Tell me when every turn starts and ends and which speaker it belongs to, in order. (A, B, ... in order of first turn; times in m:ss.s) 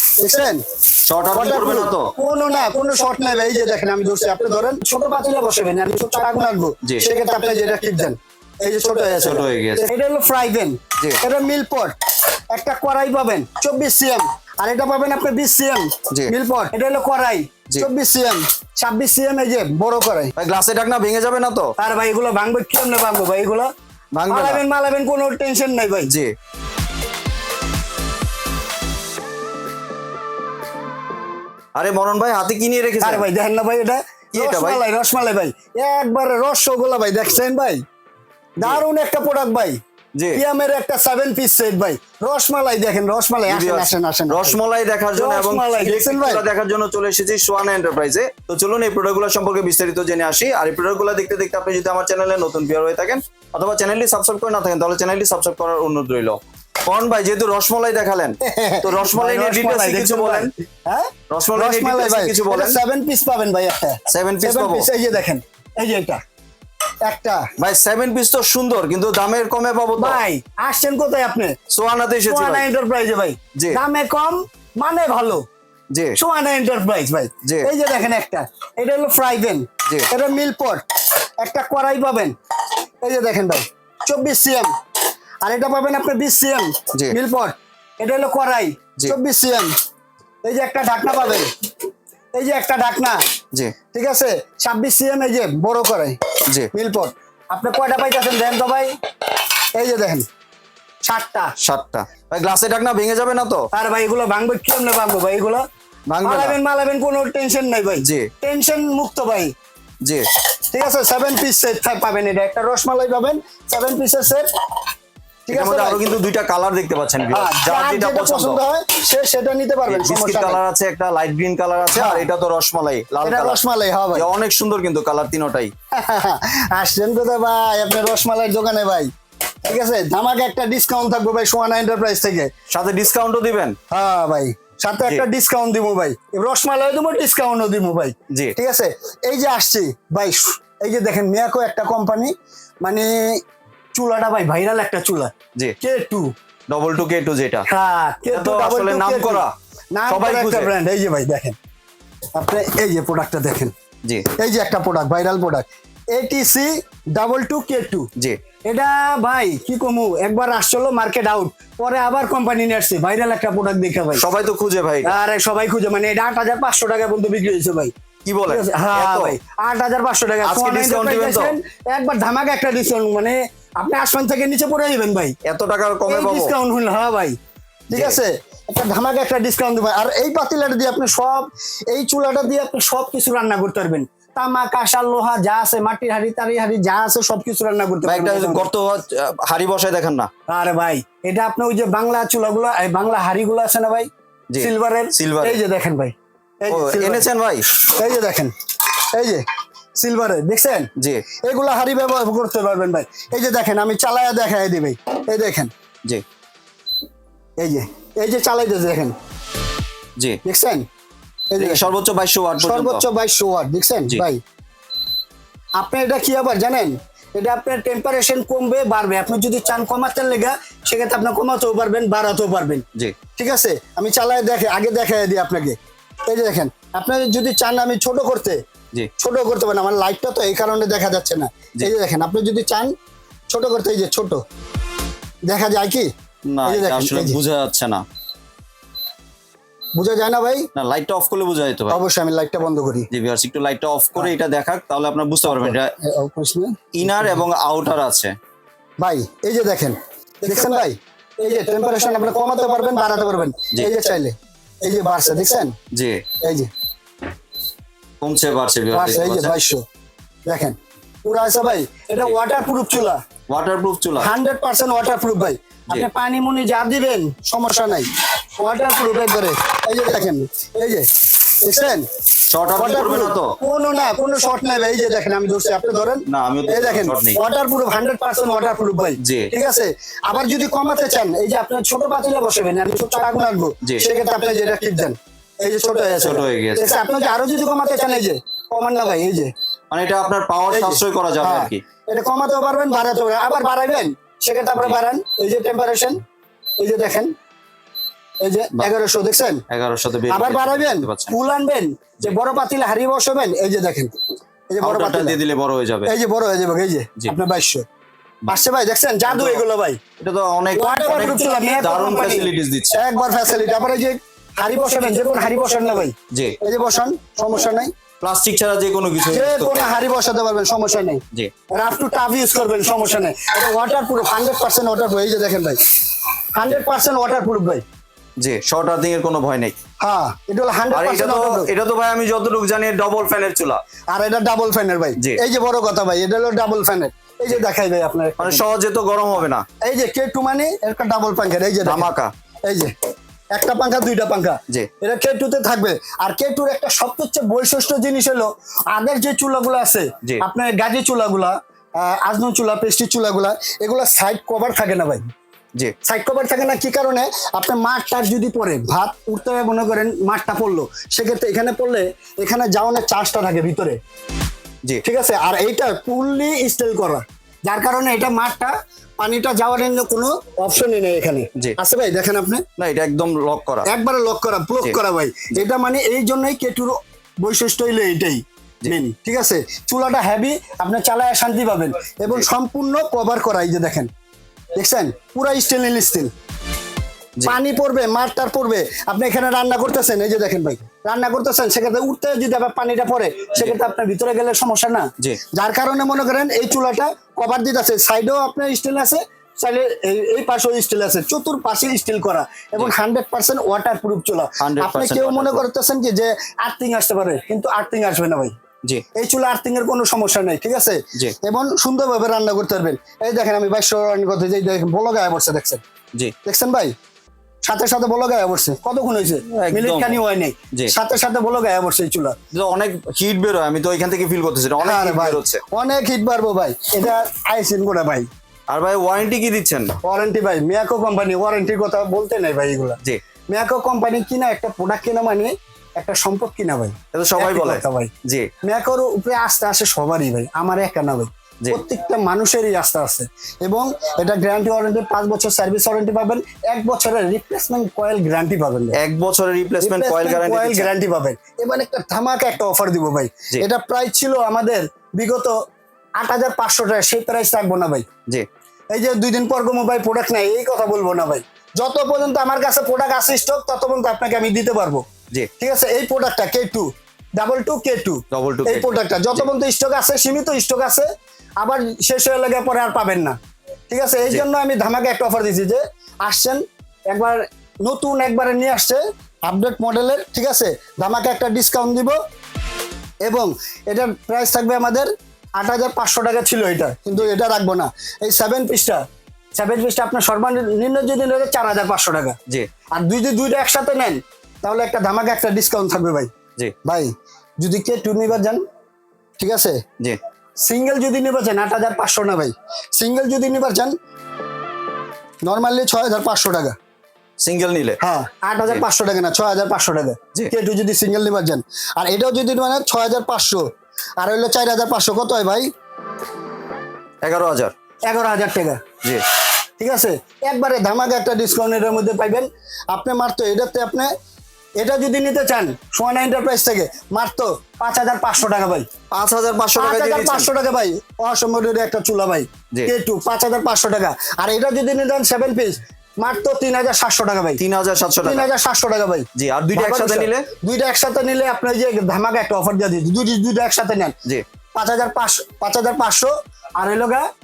0:00.2-0:00.6 A
0:01.0-0:02.1 B
0:01.3-0:12.0 A
0:09.2-0:09.9 B
0:12.5-0:20.3 A
0:20.4-0:21.7 B
0:21.8-0:23.7 A
0:24.1-0:24.6 B
0:24.3-0:26.1 A
0:26.1-0:26.3 B
0:31.7-0:33.3 B
0:33.0-0:37.8 A
0:34.3-0:34.8 B
0:38.6-0:39.8 A
0:40.1-0:40.4 B
0:40.3-0:44.6 A
0:43.5-1:00.5 B
0:45.1-0:46.4 A
0:58.4-1:06.2 A
1:01.3-1:02.8 B
1:04.1-1:04.9 B
1:07.0-1:07.5 A
1:07.6-1:10.2 B
1:10.0-1:11.6 A
1:11.7-1:12.6 B
1:12.3-1:15.4 A
1:13.6-1:13.8 B
1:15.9-1:16.2 B
1:16.2-1:20.8 A
1:17.4-1:17.7 B
1:21.4-1:22.3 A
1:23.0-1:24.7 A
1:25.4-1:29.7 A
1:30.4-1:31.5 A
1:32.3-1:33.2 A
1:33.9-1:36.2 A
1:36.7-1:38.9 A
1:39.7-1:40.2 A
1:41.0-1:41.5 A
1:41.6-1:43.7 B
1:43.7-1:45.6 A
1:46.1-1:46.6 B
1:46.2-1:49.5 A
1:48.0-1:48.3 B
1:50.7-1:54.5 A
1:55.5-1:56.0 A
1:55.5-1:58.6 B
1:57.3-2:00.6 A
1:59.9-2:03.6 B
2:01.9-2:02.2 A
2:03.2-2:04.2 A
2:04.1-2:05.7 B
2:05.9-2:09.1 A
2:09.6-2:12.5 A
2:12.7-2:13.8 B
2:13.9-2:23.4 A
2:18.3-2:18.5 B
2:23.9-2:26.3 A
2:26.7-2:27.6 B
2:27.7-2:31.6 A
2:28.3-2:29.5 B
2:30.1-2:30.7 B
2:32.4-2:33.7 A
2:34.4-2:38.1 A
2:38.7-2:44.2 A
2:44.2-2:45.1 B
2:45.0-2:47.9 A
2:48.2-2:49.3 B
2:48.5-2:55.4 A
2:50.4-2:51.6 B
2:55.4-2:56.6 B
2:56.1-2:57.4 A
2:57.9-3:08.7 A
2:57.9-2:58.2 B
3:08.0-3:10.3 B
3:10.5-3:17.3 A
3:14.5-3:15.6 B
3:16.7-3:17.6 B
3:17.8-3:18.5 A
3:19.1-3:19.4 A
3:20.0-3:20.9 A
3:21.0-3:21.2 B
3:21.4-3:25.7 A
3:27.6-3:29.1 A
3:30.4-3:30.8 A
3:31.5-3:31.8 A
3:31.6-3:33.0 B
3:32.6-3:34.4 A
3:35.8-3:42.8 A
3:43.4-3:45.8 A
3:46.3-3:48.6 A
3:49.2-3:52.9 A
3:53.5-3:54.4 A
3:55.5-3:56.1 A
3:56.5-3:58.0 B
3:56.6-3:57.4 A
3:59.9-4:00.7 A
4:00.7-4:02.0 B
4:01.9-4:03.1 A
4:03.1-4:05.9 B
4:05.5-4:07.4 A
4:06.9-4:08.3 B
4:09.0-4:15.7 A
4:15.9-4:16.2 B
4:16.4-4:16.7 A
4:18.2-4:19.6 B
4:18.9-4:19.8 A
4:20.4-4:23.2 A
4:23.5-4:24.3 B
4:24.2-4:31.1 A
4:31.6-4:32.0 A
4:32.5-4:33.5 B
4:32.8-4:49.5 A
4:36.2-4:37.4 B
4:39.2-4:39.5 B
4:46.2-4:46.9 B
4:49.9-4:51.8 B
4:50.7-4:56.2 A
4:56.8-4:57.3 A
4:58.4-4:59.6 A
4:59.7-5:01.4 B
5:00.3-5:04.1 A
5:04.7-5:05.4 A
5:04.8-5:06.1 B
5:06.0-5:07.8 A
5:08.5-5:10.0 A
5:09.3-5:09.6 B
5:10.2-5:13.0 B
5:10.8-5:17.9 A
5:16.3-5:16.6 B
5:18.2-5:19.9 B
5:19.3-5:21.2 A
5:21.7-5:25.8 A
5:26.5-5:27.8 A
5:28.4-5:29.7 B
5:30.0-5:31.7 A
5:30.9-5:33.8 B
5:34.1-5:38.6 A
5:38.4-5:39.6 B
5:39.8-5:42.1 A
5:41.8-5:42.3 B
5:42.6-5:42.9 A
5:43.5-5:55.3 A
5:56.0-6:04.0 A
6:05.0-6:12.6 A
6:12.8-6:13.9 B
6:13.8-6:24.1 A
6:24.8-6:26.3 A
6:27.4-6:48.6 A
6:44.6-6:45.6 B
6:49.1-6:55.8 A
6:56.4-6:56.9 A
6:57.6-7:02.4 A
6:59.4-7:00.2 B
7:02.5-7:05.6 B
7:04.8-7:08.3 A
7:08.7-7:09.9 B
7:10.0-7:13.0 A
7:13.5-7:18.1 A
7:17.1-7:18.5 B
7:18.6-7:29.0 A
7:29.0-7:30.9 B
7:29.8-7:35.5 A
7:36.2-7:38.0 A
7:38.9-7:45.0 A
7:45.6-7:51.1 A
7:48.3-7:49.5 B
7:51.6-7:53.4 A
7:53.9-8:02.2 A
8:03.2-8:09.0 A
8:09.5-8:12.4 A
8:12.9-8:16.3 A
8:16.8-8:18.6 A
8:19.4-8:19.8 A
8:20.6-8:23.9 A
8:25.4-8:26.7 A
8:27.4-8:28.0 B
8:28.0-8:33.6 A
8:34.2-8:35.7 A
8:37.2-8:37.7 B
8:38.1-8:38.8 A
8:39.8-8:44.1 A
8:44.8-8:48.8 A
8:49.1-8:50.5 B
8:49.8-8:57.6 A
8:57.6-8:58.5 B
8:58.2-9:04.1 A
8:59.3-9:00.5 B
9:04.7-9:07.2 A